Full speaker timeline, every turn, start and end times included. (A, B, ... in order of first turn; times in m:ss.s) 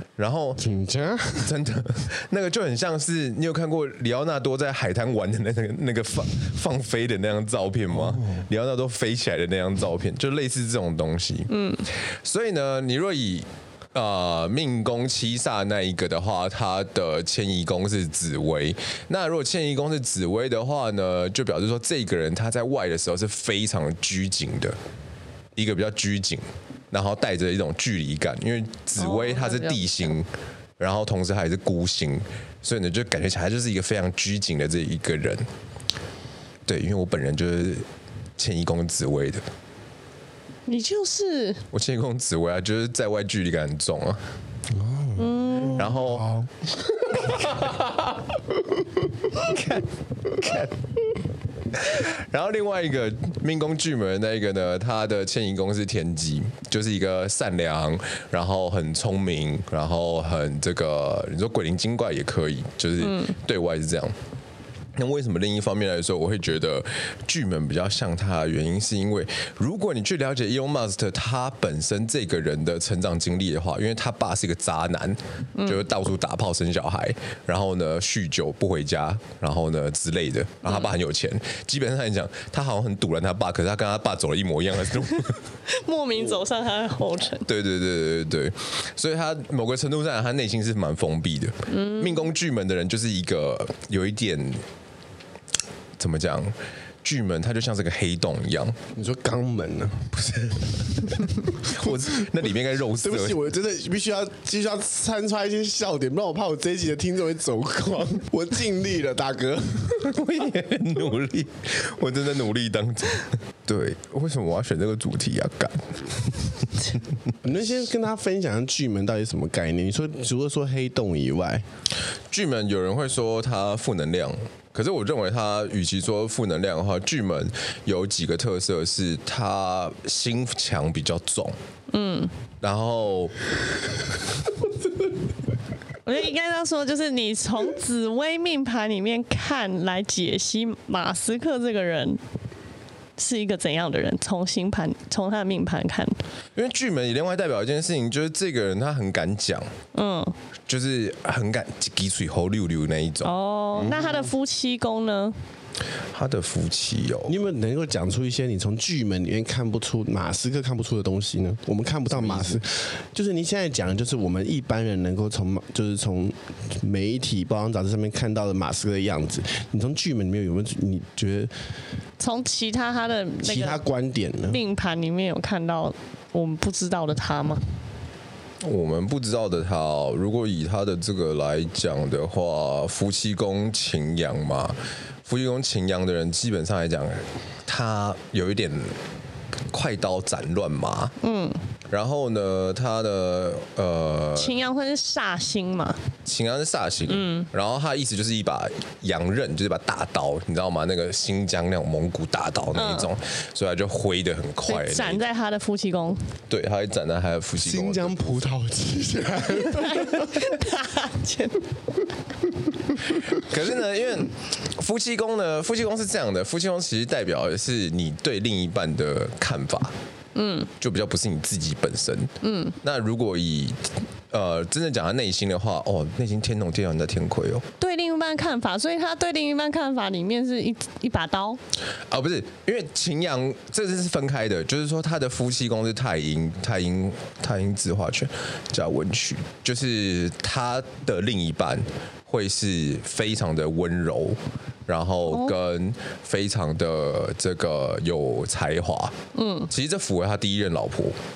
0:00.2-0:00.6 A
0:00.6-0:01.5 B
0:01.4-0:11.5 A
0:08.0-0:08.4 B
0:11.5-0:11.9 C
0:12.1-0:24.8 A
0:25.6-0:35.5 A
0:29.0-0:30.1 C
0:36.7-0:37.8 A
0:38.4-0:39.4 A
0:40.7-0:41.6 C
0:41.7-0:44.2 A
0:44.7-0:47.9 B
0:45.2-0:45.9 C
0:45.7-0:46.3 A
0:47.3-0:47.7 A
0:49.3-0:50.7 A
0:51.7-1:04.1 A
1:03.0-1:03.3 C
1:05.0-1:25.4 A
1:15.6-1:15.8 C
1:20.6-1:20.9 C
1:25.6-1:27.5 C
1:27.4-1:34.6 A
1:31.7-1:32.2 C
1:36.0-1:38.8 A
1:38.9-1:40.4 B
1:40.1-1:43.4 A
1:41.7-1:42.2 B
1:43.0-1:50.1 B
1:50.0-1:57.0 A
1:57.4-2:01.6 B
2:02.3-2:11.5 A
2:11.9-2:12.3 C
2:12.6-2:13.3 A
2:16.0-2:22.2 C
2:23.2-2:26.2 C
2:26.5-2:29.7 A
2:29.9-2:30.3 C
2:30.7-2:33.3 A
2:33.2-2:35.4 C
2:33.7-2:34.3 B
2:36.1-2:37.4 A
2:37.3-2:51.5 B
2:42.1-2:42.6 A
2:52.2-2:53.8 C
2:53.4-2:54.6 B
2:54.5-2:57.6 C
2:58.6-3:09.0 A
3:09.7-3:11.1 A
3:11.2-3:11.6 C
3:11.9-3:14.6 A
3:14.4-3:16.0 C
3:16.2-3:25.2 A
3:17.1-3:17.5 C
3:22.7-3:23.1 C
3:24.6-3:26.3 C
3:26.5-3:28.4 A
3:27.6-3:30.5 B
3:29.6-3:31.7 C
3:33.1-3:39.9 A
3:40.3-3:40.7 C
3:40.8-3:43.8 A
3:42.4-3:42.8 C
3:44.3-3:47.6 A
3:47.8-3:51.6 C
3:52.1-4:09.1 A
4:05.3-4:05.6 C
4:09.3-4:09.7 C
4:09.7-4:11.2 A